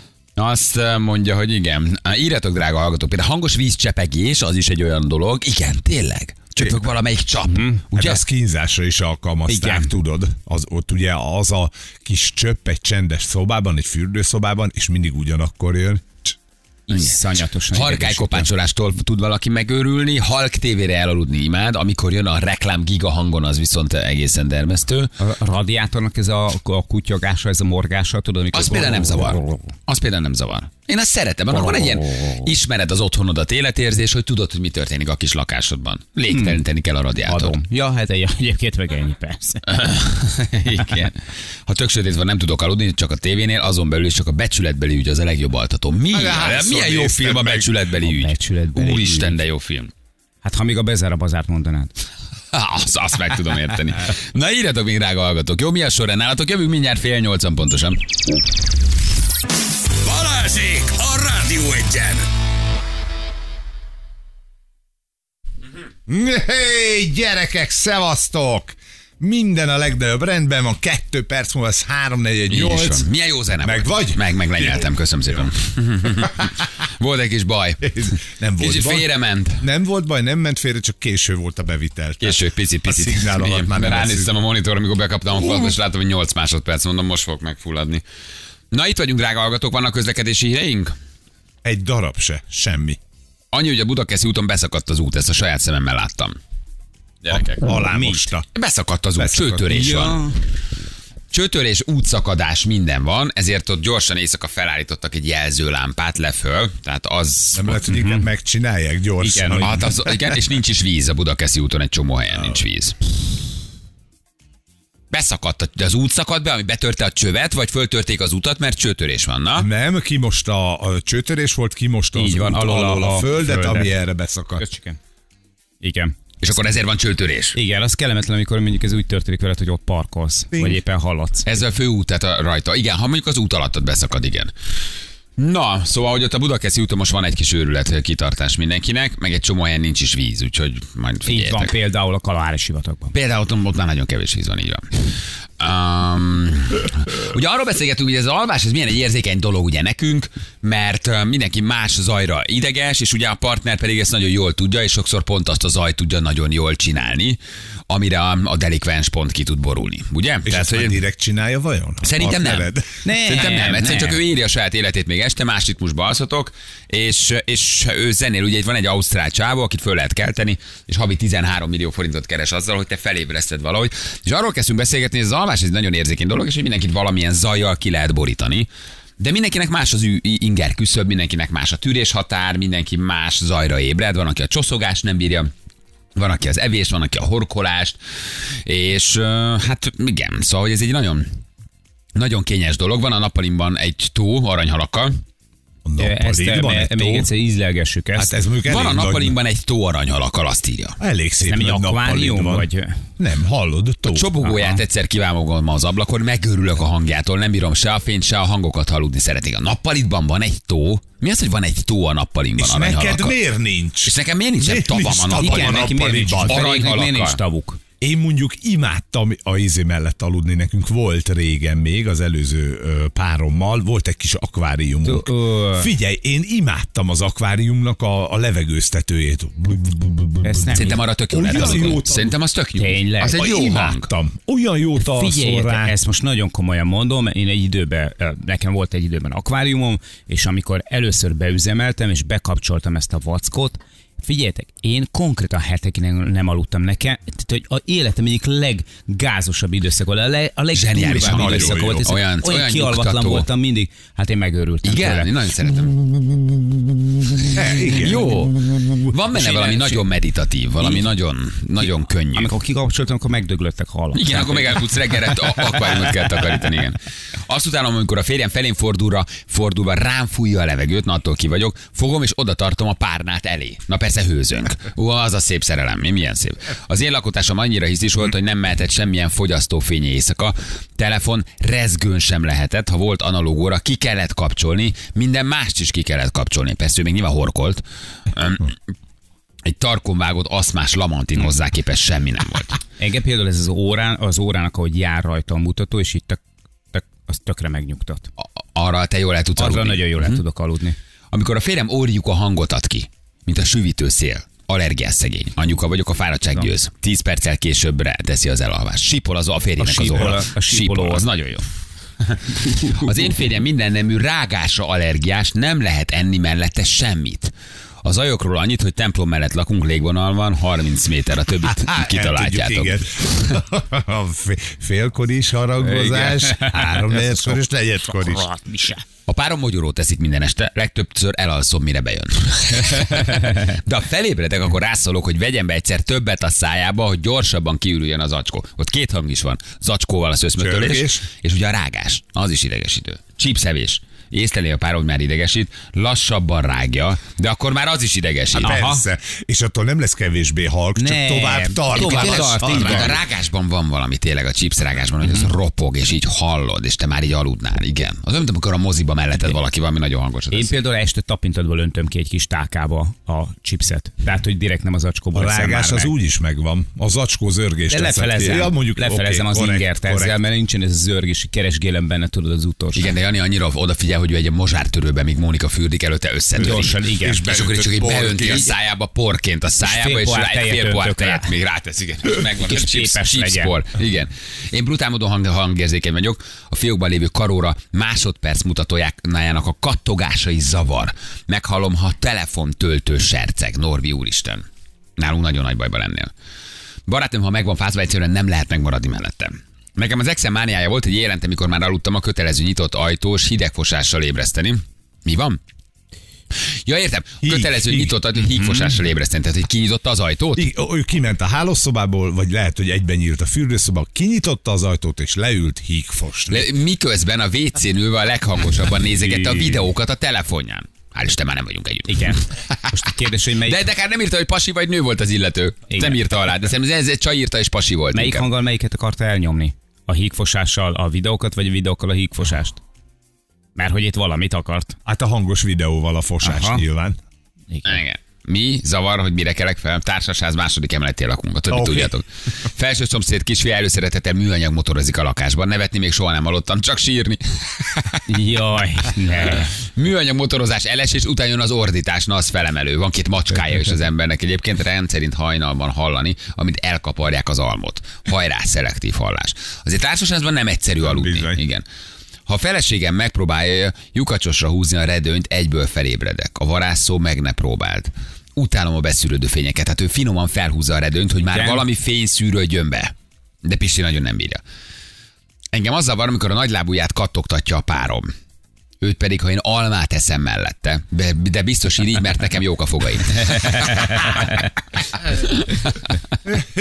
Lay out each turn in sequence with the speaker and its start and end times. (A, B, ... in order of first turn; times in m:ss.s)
0:00.4-0:08.2 A
0:07.5-0:07.8 B
0:07.9-0:16.3 C
0:09.5-0:09.9 B
0:16.9-0:18.5 B
0:16.9-0:17.2 A
0:17.7-0:25.1 A
0:25.2-0:29.5 B
0:28.5-0:37.6 A
0:36.3-0:36.6 B
0:37.2-0:39.8 B
0:39.7-0:49.9 A
0:46.1-0:47.7 C
0:48.0-0:49.4 B
0:50.4-0:51.9 B
0:52.5-0:58.0 A
1:00.0-1:02.3 D
1:06.1-1:13.0 C
1:12.5-1:19.6 A
1:13.6-1:14.9 C
1:17.8-1:24.3 C
1:22.2-1:28.0 A
1:28.7-1:30.9 A
1:31.6-1:33.0 C
1:33.5-1:36.4 A
1:37.2-1:37.6 A
1:37.3-1:38.4 C
1:37.7-1:38.3 B
1:38.5-1:40.2 A
1:39.2-1:40.0 C
1:39.7-1:40.4 B
1:41.3-1:47.8 A
1:47.5-1:50.2 C
1:47.9-1:48.3 B
1:49.2-1:49.8 B
1:49.6-1:53.0 A
1:55.1-1:59.7 A
1:59.6-2:04.6 C
2:02.1-2:04.0 B
2:04.6-2:05.0 B
2:05.8-2:06.1 B
2:06.4-2:07.6 A
2:07.5-2:11.5 B
2:10.5-2:10.8 C
2:11.4-2:14.5 A
2:15.4-2:21.7 A
2:21.2-2:23.1 B
2:23.1-2:25.0 A
2:25.6-2:41.0 A
2:40.4-2:42.9 C
2:42.0-2:42.7 A
2:43.0-2:44.2 B
2:43.2-3:05.5 A
3:06.1-3:08.0 A
3:08.6-3:11.3 A
3:12.1-3:15.2 A
3:15.8-3:17.3 C
3:16.0-3:18.3 B
3:18.2-3:19.4 C
3:18.6-3:21.0 A
3:21.0-3:24.3 C
3:21.4-3:23.0 B
3:24.0-3:33.4 A
3:24.4-3:24.8 B
3:32.6-3:36.6 C
3:34.0-3:37.4 A
3:35.4-3:37.8 B
3:38.0-3:52.3 C
3:45.0-3:45.9 B
3:50.4-3:51.0 B
3:50.7-3:54.1 A
3:51.6-3:52.0 B
3:52.8-3:53.4 B
3:53.3-3:55.9 C
3:55.0-4:15.3 B
4:10.7-4:13.5 A
4:11.2-4:12.1 C
4:14.8-4:16.0 A
4:17.4-4:22.5 A
4:17.5-4:18.9 C
4:19.3-4:20.0 B
4:22.3-4:24.8 B
4:24.1-4:48.7 A
4:49.6-4:52.8 A
4:53.0-4:56.4 B
4:56.9-4:58.3 B
4:58.7-5:00.4 A
4:59.6-5:01.0 B
5:01.3-5:11.7 A
5:09.8-5:11.2 B
5:12.2-5:17.5 A
5:12.7-5:13.1 B
5:18.0-5:23.6 A
5:21.6-5:28.4 C
5:25.8-5:27.6 B
5:28.1-5:29.0 B
5:29.3-5:48.8 A
5:40.6-5:41.2 C
5:48.5-5:53.2 C
5:48.6-5:49.0 B
5:51.0-5:53.2 B
5:51.9-6:00.7 A
6:00.5-6:06.1 B
6:05.3-6:10.4 C
6:07.9-6:13.1 B
6:12.9-6:34.6 A
6:16.6-6:17.4 B
6:17.2-6:18.7 C
6:19.8-6:21.5 B
6:22.5-6:23.7 B
6:35.2-6:36.3 A
6:37.1-6:45.6 A
6:46.8-6:50.7 A
6:47.4-6:48.1 C
6:50.6-6:56.7 C
6:56.5-7:03.1 A
6:59.2-6:59.8 B
7:02.1-7:03.8 B
7:03.6-7:08.4 A
7:05.9-7:06.2 B
7:08.1-7:12.8 B
7:13.8-7:15.0 B
7:15.0-7:17.2 C
7:16.4-7:16.8 B
7:17.7-7:18.0 B
7:17.8-7:28.2 A
7:21.7-7:22.1 C
7:28.3-7:29.7 B
7:29.5-7:41.8 A
7:41.0-7:41.6 C
7:42.5-7:53.1 A
7:51.4-7:51.8 B
7:53.6-7:54.6 A
7:55.7-7:58.3 A
7:59.0-8:06.6 A
8:03.6-8:04.6 B